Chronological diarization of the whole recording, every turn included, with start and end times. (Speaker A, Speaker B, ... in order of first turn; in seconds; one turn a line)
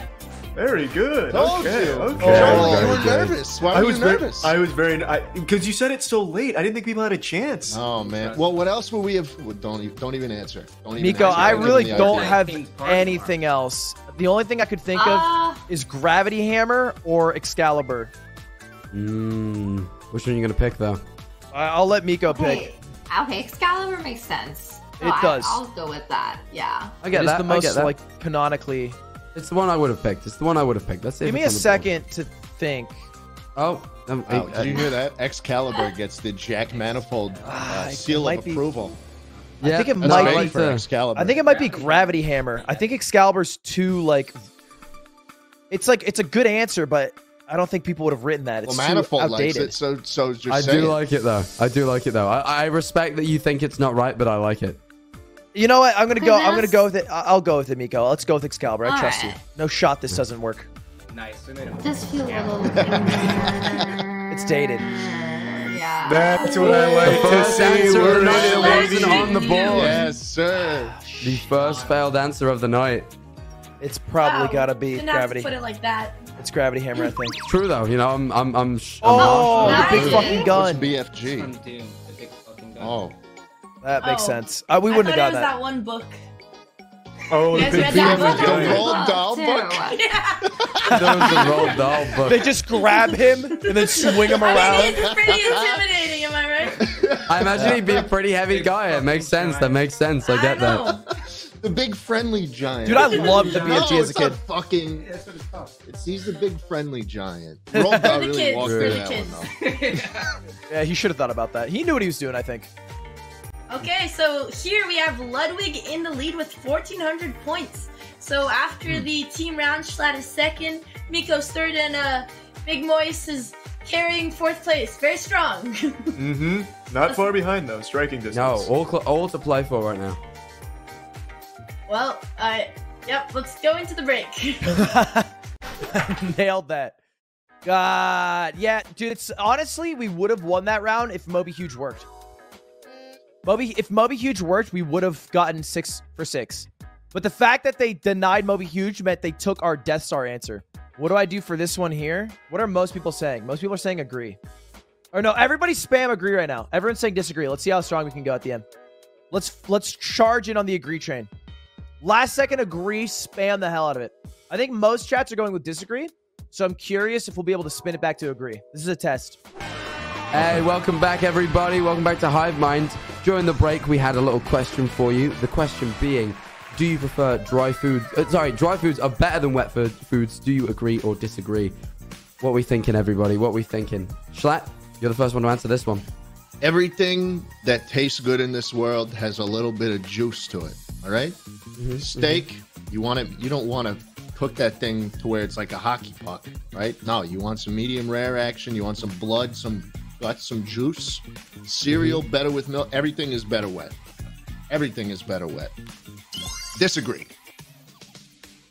Speaker A: 0.6-7.8
Speaker B: 1.3-4.6
Speaker C: 2.2-3.4
Speaker B: 7.7-12.4
Speaker D: 7.9-8.7
Speaker E: 11.0-18.1
Speaker D: 11.1-13.4
Speaker F: 14.9-15.7
Speaker C: 18.9-21.0
Speaker E: 21.5-22.6
Speaker F: 22.3-27.0
Speaker E: 25.0-25.6
Speaker C: 27.0-28.0
Speaker E: 27.0-29.0
Speaker C: 29.4-31.9
Speaker E: 31.2-33.0
Speaker C: 33.6-34.9
Speaker B: 34.3-39.0
Speaker D: 36.7-37.4
Speaker E: 37.4-38.6
Speaker C: 39.6-40.9
Speaker E: 39.6-44.4
Speaker B: 40.0-41.4
Speaker D: 41.4-43.0
Speaker E: 45.7-49.7
Speaker B: 48.6-51.0
Speaker C: 50.5-54.8
Speaker E: 55.5-60.7
Speaker F: 56.2-56.9
Speaker F: 58.8-59.4
Speaker D: 61.1-63.8
Speaker F: 61.8-67.4
Speaker B: 62.8-63.9
Speaker E: 64.3-64.9
Speaker A: 66.0-69.5
Speaker C: 67.0-70.0
Speaker B: 67.8-71.0
Speaker G: 68.3-69.9
Speaker F: 68.6-70.0
Speaker E: 70.9-71.5
Speaker C: 71.2-73.1
Speaker D: 71.5-72.1
Speaker E: 73.8-75.5
Speaker G: 74.2-76.2
Speaker E: 76.4-77.4
Speaker C: 77.4-79.8
Speaker E: 79.0-80.8
Speaker F: 79.2-80.5
Speaker D: 79.5-79.9
Speaker G: 79.6-80.4
Speaker B: 79.7-81.5
Speaker D: 81.1-83.1
Speaker B: 82.8-83.2
Speaker E: 83.8-85.5
Speaker G: 84.0-86.2
Speaker A: 87.3-88.9
Speaker G: 87.5-88.8
Speaker B: 87.6-89.9
Speaker F: 88.6-90.0
Speaker G: 89.9-90.5
Speaker B: 90.5-91.4
Speaker E: 90.9-95.0
Speaker C: 90.9-92.5
Speaker G: 92.8-96.9
Speaker B: 94.5-95.9
Speaker B: 96.8-98.0
Speaker C: 97.3-100.9
Speaker D: 98.5-99.8
Speaker G: 100.2-101.0
Speaker B: 100.9-105.1
Speaker E: 102.8-104.4
Speaker D: 102.9-104.3
Speaker D: 105.0-105.8
Speaker B: 105.9-109.5
Speaker E: 107.7-108.2
Speaker G: 108.0-109.5
Speaker C: 108.6-109.0
Speaker D: 109.6-110.3
Speaker E: 110.7-112.7
Speaker G: 113.7-126.2
Speaker A: 126.2-128.7
Speaker C: 128.3-130.2
Speaker G: 131.9-134.8
Speaker E: 134.7-135.3
Speaker E: 135.9-137.0
Speaker E: 137.7-142.1
Speaker E: 143.4-154.4
Speaker E: 155.1-158.7
Speaker E: 159.3-161.3
Speaker E: 162.0-169.4
Speaker C: 170.3-181.8
Speaker C: 182.4-186.1
Speaker B: 186.6-191.4
Speaker C: 191.8-192.4
Speaker B: 192.0-203.9
Speaker C: 201.9-202.2
Speaker B: 204.7-205.7
Speaker B: 206.8-207.3